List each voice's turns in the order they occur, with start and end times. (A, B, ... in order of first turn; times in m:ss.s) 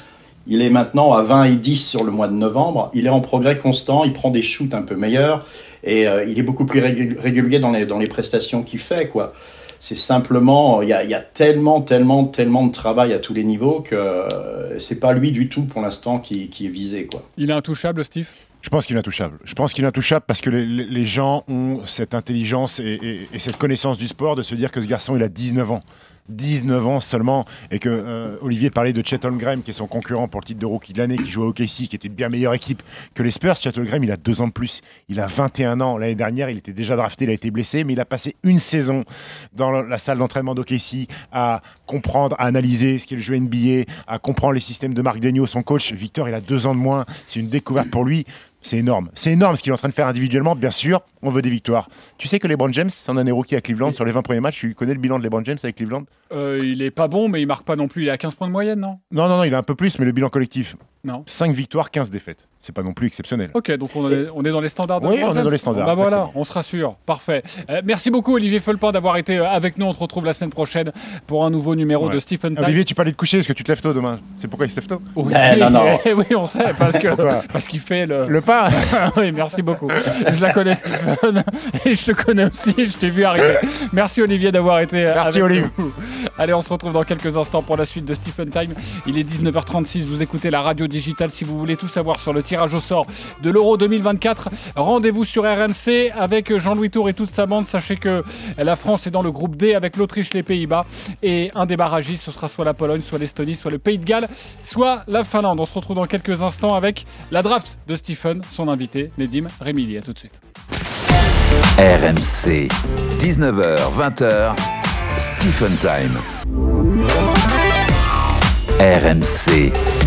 0:00.4-0:17.2 A
0:17.4-0:18.3 B
0:18.6-0:56.1 C
0:56.3-0:59.0 B
0:59.1-1:03.5 C
1:03.5-1:12.8 B
1:05.0-1:06.3 C
1:12.0-1:15.1 C
1:15.2-1:50.4 B
1:15.2-1:16.0 A
1:17.0-1:17.5 C
1:18.2-1:19.1 C
1:25.1-1:25.7 C
1:51.8-1:54.6 D
1:55.2-1:56.2 D
1:58.8-1:59.7 D